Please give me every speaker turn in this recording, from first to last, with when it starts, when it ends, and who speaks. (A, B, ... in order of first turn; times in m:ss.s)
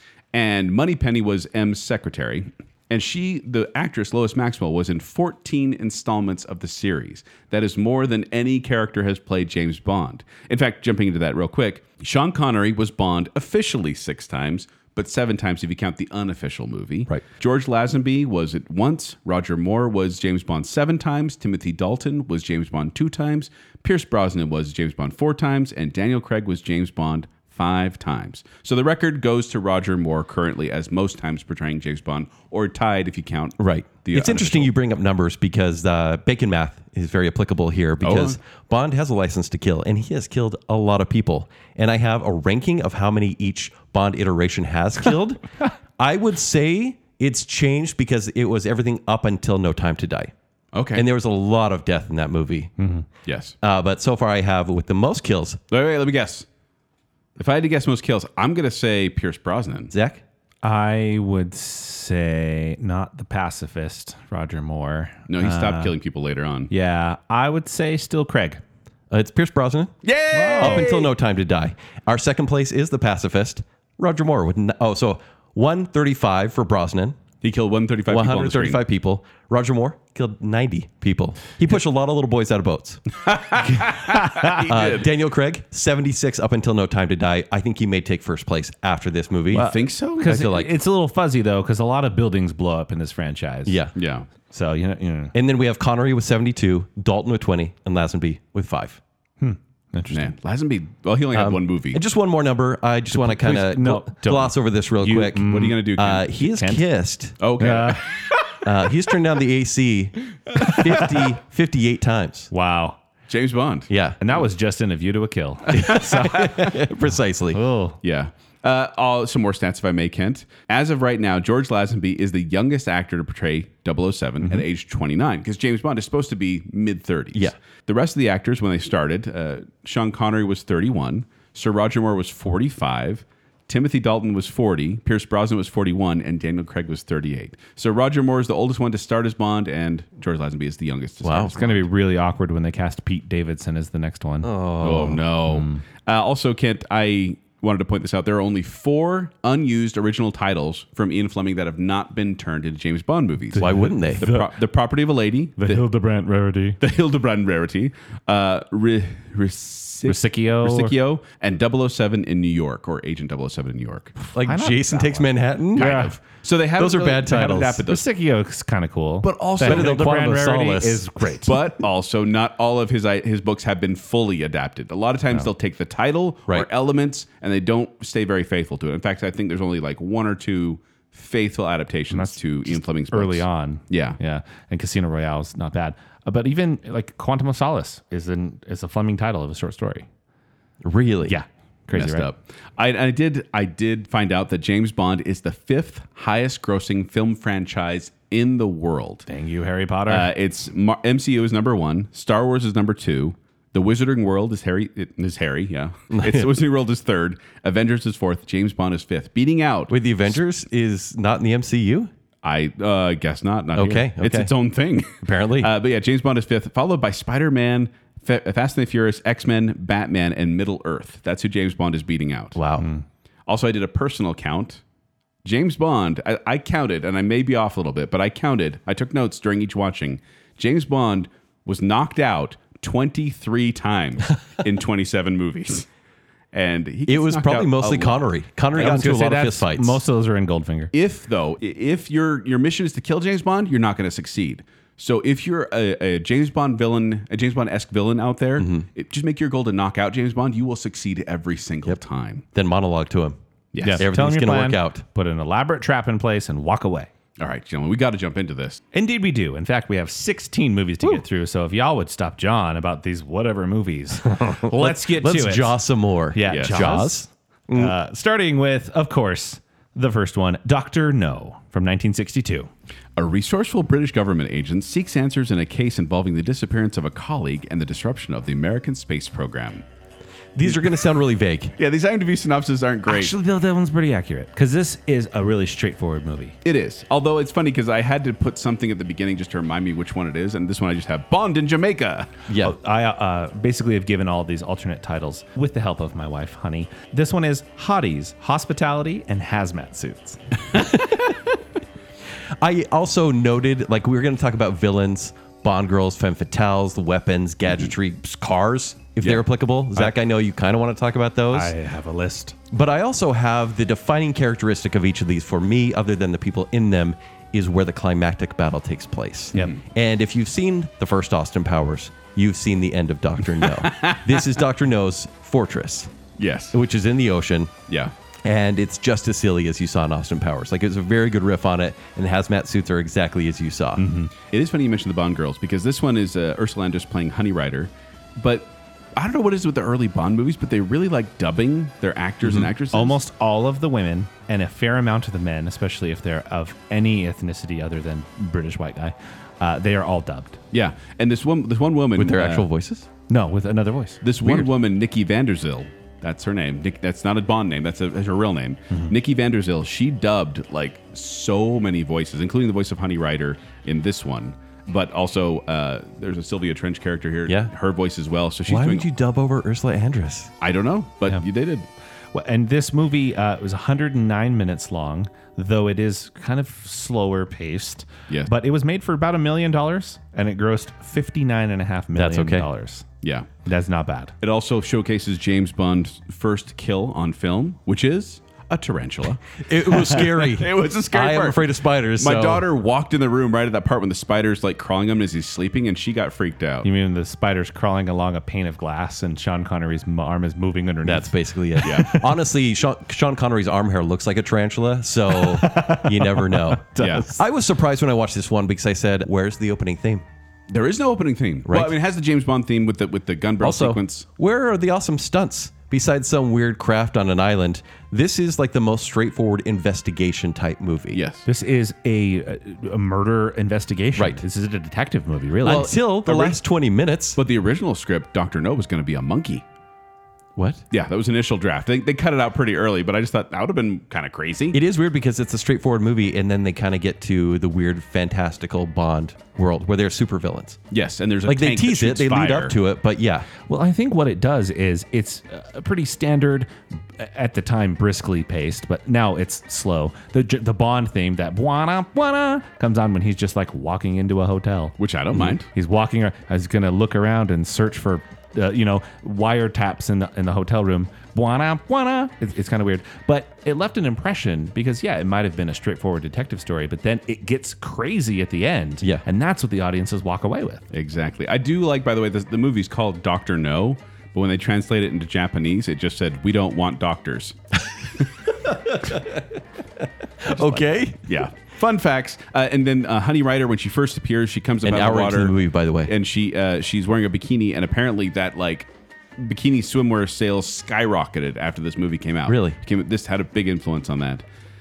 0:00.3-0:34.7 A
0:33.6-0:45.5 B
0:38.0-0:38.4 A
0:46.0-0:50.3 B
0:50.7-0:51.0 A
0:50.9-0:52.7 B
0:52.8-0:53.1 C
0:53.3-0:53.6 A
0:53.6-0:55.6 B
0:55.7-0:56.5 A
0:57.4-0:59.9 A
0:59.9-1:00.2 B
1:00.6-1:05.9 C
1:05.3-1:06.7 A
1:06.7-1:08.6 C
1:09.1-1:10.0 B
1:10.0-1:11.1 A
1:10.3-1:10.9 C
1:10.6-1:17.2 B
1:17.4-1:18.8 A
1:18.1-1:23.0 B
1:23.2-1:25.1 A
1:23.7-1:24.6 C
1:24.6-1:29.7 B
1:29.5-1:33.8 C
1:29.5-1:30.5 A
1:30.3-1:30.7 B
1:33.7-1:33.9 B
1:34.0-1:34.3 A
1:34.5-1:35.4 C
1:35.3-1:39.0 B
1:39.4-1:40.3 C
1:40.1-1:42.0 A
1:41.3-1:47.4 B
1:43.1-1:46.8 C
1:45.5-1:46.3 A
1:47.4-1:48.1 A
1:47.6-1:48.2 C
1:48.6-1:52.5 B
1:50.6-1:51.0 C
1:52.5-1:53.0 C
1:53.3-1:53.9 A
1:53.9-1:54.2 B
1:54.2-1:56.8 C
1:55.7-1:57.6 B
1:57.5-1:58.0 C
1:58.0-2:21.9 A
2:21.2-2:21.6 B
2:21.4-2:24.5 C
2:24.4-2:25.2 B
2:24.8-2:35.8 A
2:25.5-2:25.8 C
2:33.5-2:34.5 C
2:33.6-2:34.3 B
2:35.6-2:36.8 C
2:36.8-2:44.2 A
2:40.0-2:40.9 C
2:44.2-2:46.2 C
2:44.3-2:46.1 B
2:45.8-2:48.0 A
2:46.8-2:47.8 B
2:47.9-2:51.6 C
2:49.2-2:50.1 A
2:49.6-2:51.1 B
2:51.5-3:04.2 A
3:02.1-3:10.1 C
3:10.8-3:11.4 B
3:11.2-3:12.3 C
3:12.0-3:19.3 A
3:19.3-3:20.3 C
3:20.1-3:30.3 A
3:26.1-3:26.5 B
3:29.9-3:32.1 B
3:32.4-3:42.6 A
3:33.8-3:34.5 B
3:35.2-3:35.7 B
3:42.6-3:42.9 B
3:42.8-3:43.0 C
3:43.5-3:44.8 A
3:45.4-3:55.9 A
3:56.5-3:58.3 A
3:57.1-4:00.0 B
3:58.8-4:00.9 C
4:00.9-4:12.4 A
4:08.6-4:08.9 B
4:12.5-4:13.4 B
4:13.7-4:14.0 A
4:13.8-4:17.1 C
4:13.9-4:15.0 B
4:17.4-4:18.8 A
4:18.9-4:32.7 C
4:24.4-4:27.9 B
4:26.5-4:27.1 A
4:33.2-4:39.8 A
4:40.6-4:41.7 B
4:40.6-4:40.9 A
4:41.8-4:43.4 A
4:43.1-4:46.6 C
4:46.6-4:52.3 A
4:52.5-4:52.8 B
4:52.6-5:00.4 C
5:00.7-5:01.3 B
5:02.6-5:11.7 B
5:11.5-5:12.6 C
5:12.7-5:26.1 B
5:23.6-5:24.5 A
5:26.4-5:26.8 A
5:26.7-5:27.7 B
5:28.4-5:34.0 B
5:34.0-5:34.3 C
5:34.5-5:43.2 A
5:42.4-5:42.7 B
5:42.9-5:50.6 C
5:50.7-5:52.7 A
5:52.2-5:53.1 B
5:53.3-5:54.6 C
5:54.2-6:09.1 A
6:08.7-6:10.5 B
6:10.6-6:11.9 A
6:12.3-6:23.1 C
6:22.2-6:22.7 B
6:23.2-6:23.5 A
6:23.6-6:24.3 C
6:24.4-6:36.9 A
6:29.6-6:32.7 B
6:36.8-6:42.3 C
6:41.0-6:50.2 B
6:41.8-6:42.1 A
6:45.3-6:47.4 C
6:47.0-6:47.3 A
6:50.7-6:54.3 A
6:51.6-6:51.9 B
6:53.6-7:01.2 B
7:01.1-7:01.5 A
7:01.5-7:06.0 C
7:04.2-7:04.4 B
7:05.6-7:07.4 B
7:05.7-7:06.6 A
7:07.4-7:09.6 A
7:10.6-7:10.8 B
7:10.9-7:14.8 A
7:14.7-7:20.8 B
7:20.9-7:22.8 A
7:21.4-7:23.5 B
7:23.7-7:35.0 C
7:35.0-7:35.7 A
7:35.7-7:50.9 C
7:50.9-7:57.6 A
7:58.6-8:01.3 B
8:01.2-8:05.6 A
8:04.8-8:06.1 B
8:06.1-8:14.4 A
8:12.5-8:12.8 B